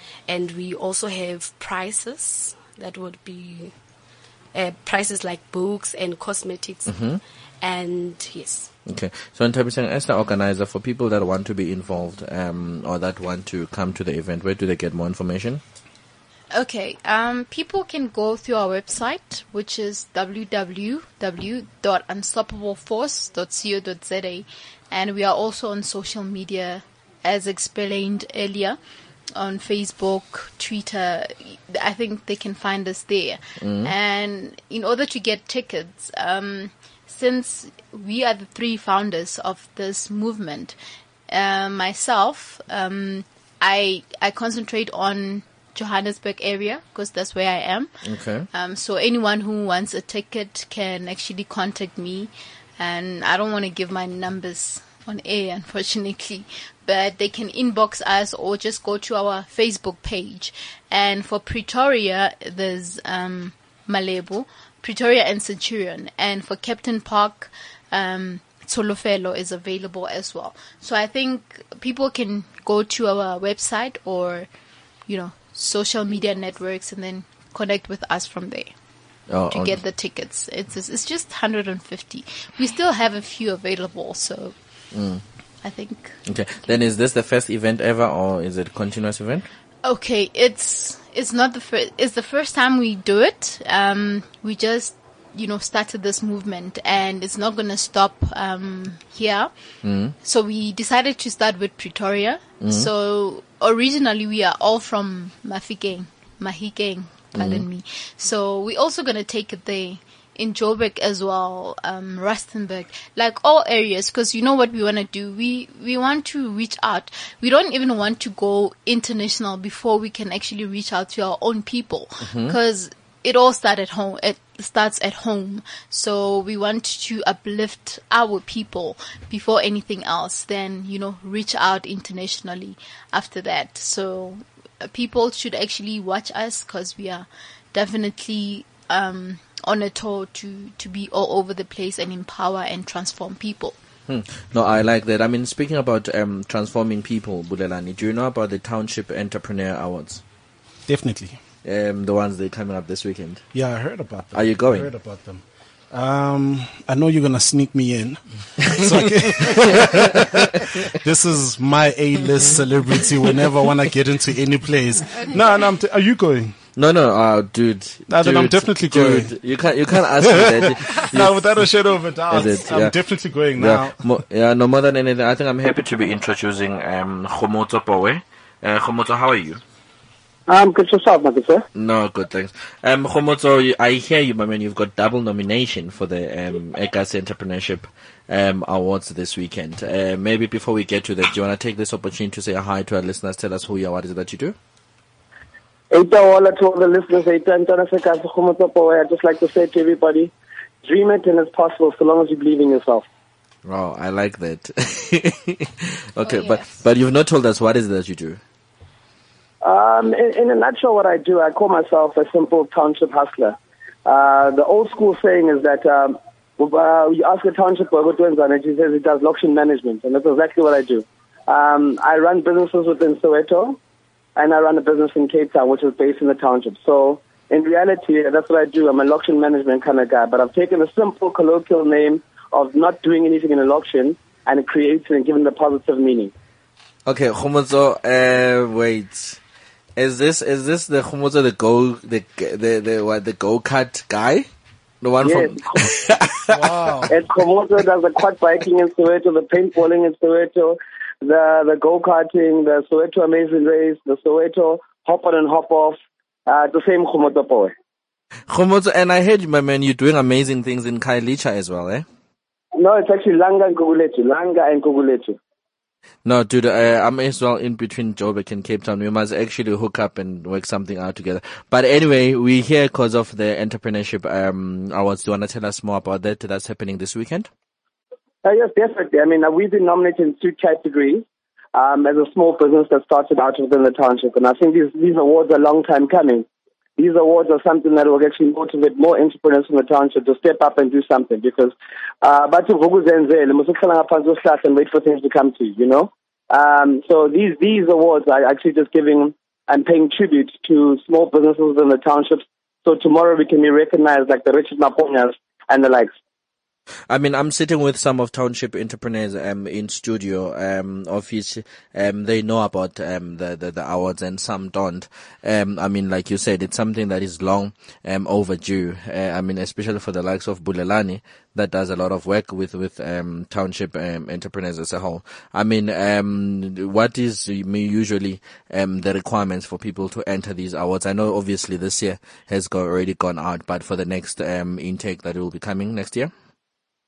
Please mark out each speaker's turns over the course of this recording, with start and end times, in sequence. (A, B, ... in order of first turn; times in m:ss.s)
0:00.3-0:03.7 A
0:04.5-0:07.0 A
0:06.9-0:07.2 B
0:07.6-0:08.7 A
0:08.8-0:15.6 B
0:16.5-0:28.8 C
0:29.3-0:40.7 C
0:33.6-0:33.9 B
0:41.3-0:47.9 C
0:48.0-0:48.5 B
0:48.5-1:14.5 C
1:15.1-1:18.7 C
1:19.3-1:19.8 B
1:19.5-1:24.5 C
1:24.9-1:25.2 B
1:25.6-1:26.2 C
1:26.3-1:29.5 B
1:29.8-1:39.5 C
1:39.8-1:40.2 B
1:40.2-2:23.8 C
1:42.6-1:42.9 B
1:47.3-1:47.6 B
2:02.2-2:02.6 B
2:24.1-2:30.2 B
2:30.9-2:31.4 D
2:31.6-2:33.4 B
2:33.5-2:46.5 D
2:34.3-2:34.9 B
2:38.6-2:40.3 B
2:46.8-2:51.6 B
2:48.1-2:49.3 D
2:49.9-2:54.0 D
2:52.3-2:53.0 B
2:53.5-2:59.6 B
3:00.5-3:01.6 E
3:01.7-3:14.6 B
3:15.9-3:23.0 E
3:23.6-3:28.4 B
3:26.2-3:26.8 C
3:29.6-3:43.8 E
3:44.4-3:56.3 E
3:57.0-3:59.4 B
4:00.0-4:04.5 B
4:05.0-4:06.6 B
4:05.2-4:05.9 E
4:06.5-4:07.1 D
4:07.1-4:17.7 E
4:18.5-4:22.0 B
4:22.8-4:25.4 E
4:26.2-4:37.5 B
4:38.4-4:46.4 E
4:47.0-5:06.1 E
5:07.1-5:36.3 B